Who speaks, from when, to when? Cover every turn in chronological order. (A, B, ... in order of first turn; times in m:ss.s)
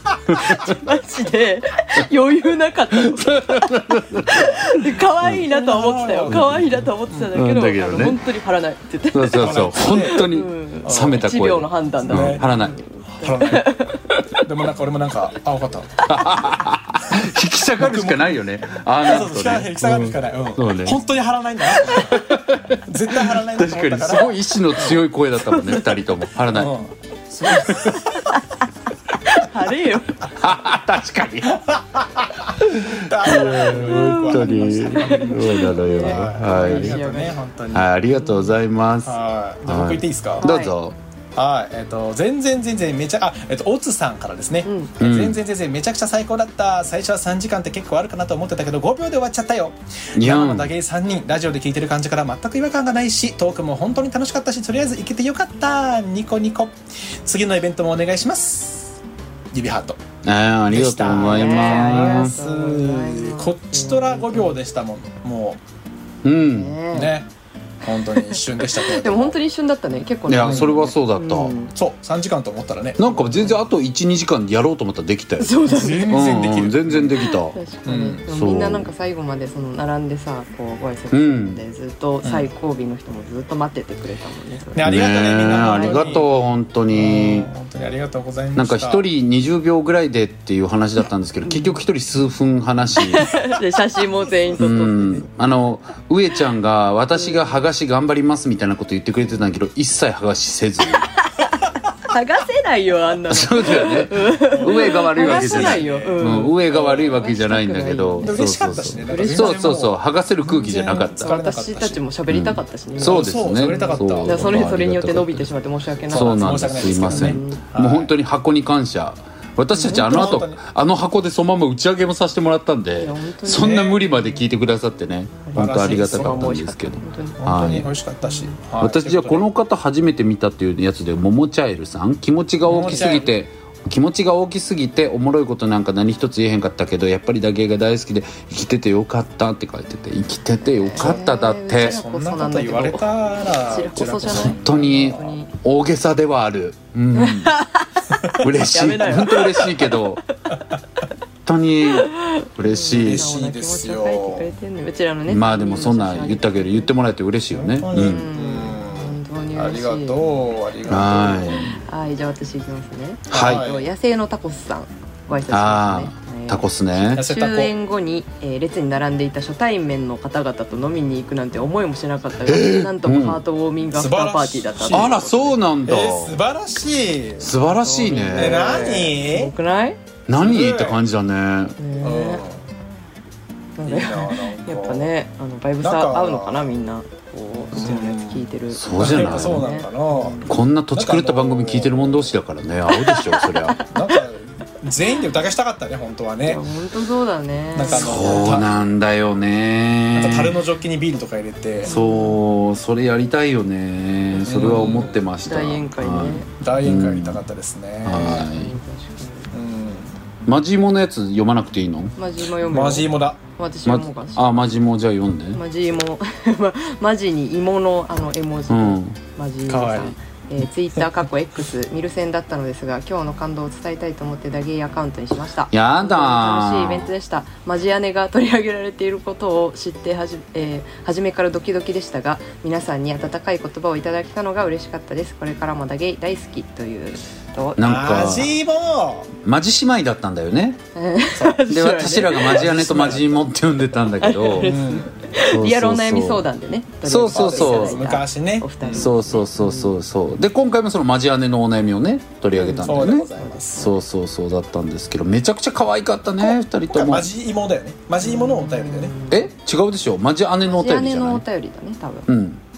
0:00.3-0:00.8 A
0:00.3-0:14.1 B
0:02.9-0:05.4 A
0:05.5-0:06.5 C
0:06.3-0:06.6 A
0:07.3-0:08.3 A
0:09.1-0:12.8 A
0:09.3-0:10.3 C
0:10.8-0:11.3 C
0:12.0-0:12.5 C
0:13.1-0:13.8 C
0:14.4-0:16.1 C
0:16.1-0:21.0 A
0:17.8-0:18.4 C
0:19.0-0:22.3 C
0:21.7-0:26.8 A
0:22.8-0:25.0 C
0:25.5-0:25.8 B
0:26.5-0:28.4 C
0:27.4-0:28.0 A
0:27.5-0:28.4 B
0:29.2-0:30.2 B
0:30.4-0:31.6 A
0:31.5-0:37.9 C
0:32.9-0:37.0 A
0:33.3-0:37.4 B
0:37.7-0:41.0 A
0:38.1-0:38.5 B
0:39.0-0:40.5 C
0:40.4-0:40.7 B
0:41.4-0:59.0 C
0:44.6-0:44.9 B
0:45.0-0:45.4 A
0:50.1-0:50.7 A
0:59.5-1:00.0 C
1:00.2-1:02.3 A
1:00.7-1:05.6 C
1:01.1-1:04.6 B
1:06.2-1:06.8 A
1:06.5-1:07.1 B
1:06.9-1:07.3 C
1:07.8-1:09.4 C
1:08.1-1:11.7 B
1:10.3-1:11.6 A
1:10.4-1:10.8 C
1:11.7-1:13.2 C
1:13.0-1:17.6 A
1:13.1-1:13.6 B
1:15.4-1:16.2 B
1:15.7-1:17.3 C
1:17.2-1:25.0 B
1:17.9-1:18.2 C
1:18.3-1:18.9 A
1:21.1-1:21.6 A
1:22.2-1:22.5 C
1:24.7-1:26.3 C
1:24.8-1:27.5 A
1:25.5-1:26.3 B
1:26.9-1:29.0 C
1:28.6-1:33.4 A
1:31.4-1:31.8 B
1:33.0-1:35.2 B
1:34.6-1:41.1 A
1:37.2-1:37.5 B
1:41.4-1:48.5 B
1:43.3-1:51.3 A
1:44.4-1:47.1 C
1:48.2-1:52.0 C
1:49.0-1:49.7 B
1:50.9-1:57.6 B
1:52.3-1:55.5 A
1:53.0-1:54.6 C
1:56.1-1:58.1 C
1:56.1-2:07.9 A
1:59.7-2:00.4 B
1:59.9-2:00.6 C
2:03.0-2:04.4 B
2:03.6-2:04.0 C
2:05.4-2:07.4 B
2:05.6-2:06.5 C
2:07.4-2:09.4 C
2:08.3-2:08.5 B
2:08.8-2:22.0 A
2:12.7-2:13.3 C
2:12.7-2:13.2 B
2:20.8-2:25.5 B
2:21.0-2:25.4 C
2:24.2-2:27.6 A
2:27.1-2:29.9 B
2:28.4-2:30.2 A
2:31.4-2:33.3 A
2:31.9-2:36.9 B
2:32.9-2:34.5 C
2:35.3-2:38.2 A
2:37.6-2:41.6 C
2:37.9-2:40.3 B
2:40.9-2:41.8 A
2:41.5-2:55.6 B
2:43.3-2:43.7 A
2:43.3-2:43.9 C
2:45.5-2:47.2 A
2:47.1-2:47.7 C
2:52.4-2:53.4 A
2:53.9-2:55.1 C
2:54.9-2:56.4 A
2:55.8-2:57.5 C
2:57.4-2:58.9 A
2:57.6-3:00.0 B
2:58.3-2:59.5 C
3:00.3-3:01.8 A
3:00.4-3:01.0 C
3:01.8-3:02.4 B
3:02.0-3:02.6 C
3:03.8-3:10.5 B
3:03.8-3:05.1 C
3:05.8-3:06.7 C
3:07.7-3:08.4 C
3:08.7-3:09.7 A
3:09.0-3:12.3 C
3:10.5-3:13.8 A
3:12.9-3:14.0 B
3:13.8-3:16.6 C
3:16.5-3:18.6 B
3:17.8-3:18.7 C
3:17.9-3:20.6 A
3:20.1-3:21.9 C
3:21.8-3:27.4 A
3:21.9-3:22.4 B
3:24.4-3:25.2 C
3:24.6-3:26.5 B
3:26.6-3:28.5 C
3:28.0-3:28.7 A
3:28.4-3:29.5 B
3:29.5-3:30.1 C
3:30.5-3:32.2 A
3:32.2-3:34.8 B
3:32.7-3:33.4 C
3:33.8-3:35.6 A
3:35.5-3:57.8 B
3:38.7-3:39.2 A
3:39.7-3:40.2 C
3:45.7-3:47.1 A
3:57.8-3:58.6 A
3:57.8-3:59.3 C
3:59.4-4:00.8 A
4:01.0-4:02.6 B
4:01.7-4:04.8 A
4:02.4-4:03.4 C
4:04.2-4:09.9 B
4:04.6-4:05.2 C
4:05.4-4:06.5 A
4:07.0-4:08.0 A
4:07.3-4:09.1 C
4:09.0-4:17.3 A
4:12.5-4:13.9 B
4:12.8-4:13.9 C
4:16.9-4:19.2 C
4:18.2-4:19.5 B
4:19.3-4:21.4 A
4:20.6-4:22.3 B
4:22.3-4:22.6 A